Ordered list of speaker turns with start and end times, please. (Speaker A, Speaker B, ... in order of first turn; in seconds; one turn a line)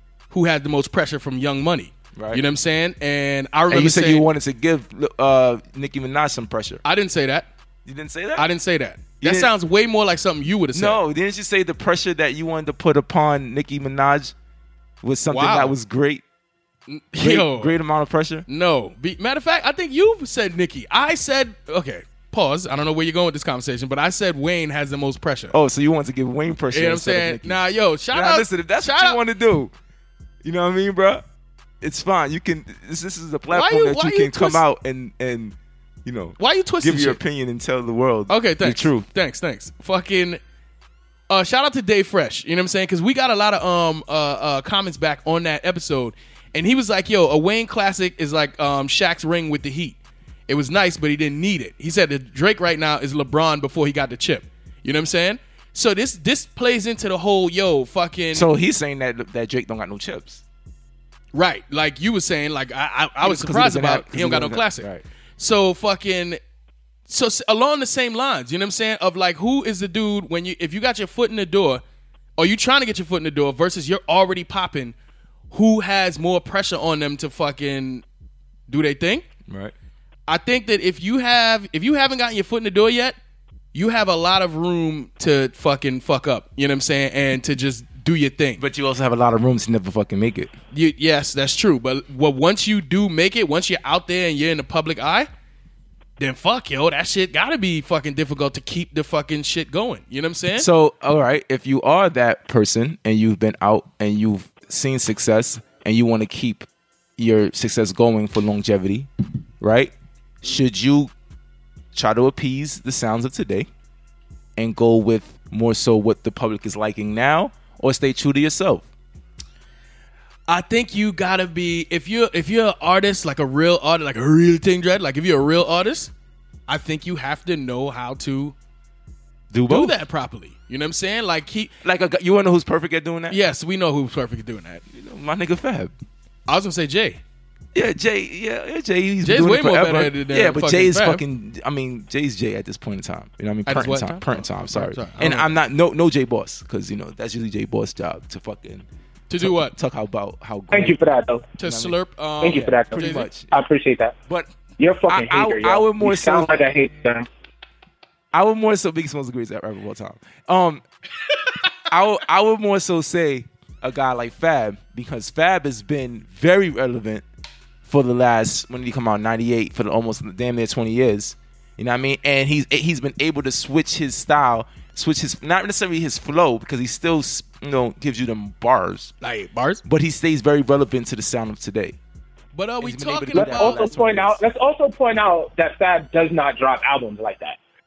Speaker A: 0.3-4.3
Speaker B: 2.2-2.4
Speaker B: 3.7-6.8
Speaker A: 6.8-7.5
Speaker B: 7.9-8.5
Speaker A: 8.4-11.0
Speaker B: 9.2-9.5
Speaker B: 10.7-14.3
Speaker B: 15.0-16.2
Speaker A: 15.3-15.8
Speaker A: 16.9-17.7
Speaker B: 17.2-18.4
Speaker A: 18.5-25.6
Speaker B: 25.5-29.7
Speaker A: 26.7-29.2
Speaker B: 30.4-31.2
Speaker B: 31.8-39.1
Speaker A: 33.5-34.6
Speaker A: 36.4-37.2
Speaker A: 38.3-40.4
Speaker A: 41.3-50.0
Speaker A: 50.5-58.5
Speaker B: 58.3-60.4
Speaker A: 61.3-64.9
Speaker B: 63.2-65.0
Speaker A: 65.4-66.4
Speaker A: 67.1-71.8
Speaker A: 72.4-75.0
Speaker A: 75.5-78.0
Speaker A: 78.7-79.2
Speaker B: 79.5-79.7
Speaker A: 80.3-83.2
Speaker A: 83.7-88.6
Speaker B: 88.6-90.5
Speaker A: 90.7-95.3
Speaker A: 96.2-100.7
Speaker B: 100.6-106.7
Speaker B: 107.2-109.1
Speaker B: 109.6-111.1
Speaker B: 111.9-113.7
Speaker B: 114.6-118.9
Speaker A: 120.5-126.1
Speaker A: 126.7-128.6
Speaker B: 129.5-130.0
Speaker A: 129.7-131.7
Speaker B: 131.8-133.4
Speaker A: 133.3-134.8
Speaker B: 134.9-135.9
Speaker A: 136.5-137.2
Speaker B: 137.7-148.9
Speaker A: 139.2-141.2
Speaker A: 143.7-145.5
Speaker A: 149.3-149.7
Speaker B: 149.4-151.0
Speaker C: 150.7-151.5
Speaker A: 151.6-153.3
Speaker B: 151.6-153.5
Speaker C: 152.4-154.2
Speaker C: 154.8-157.3
Speaker B: 155.1-156.6
Speaker B: 158.3-160.8
Speaker B: 161.9-167.2
Speaker B: 167.8-179.1
Speaker A: 179.2-179.8
Speaker B: 179.8-182.0
Speaker A: 182.5-183.9
Speaker B: 182.8-184.4
Speaker C: 183.3-187.6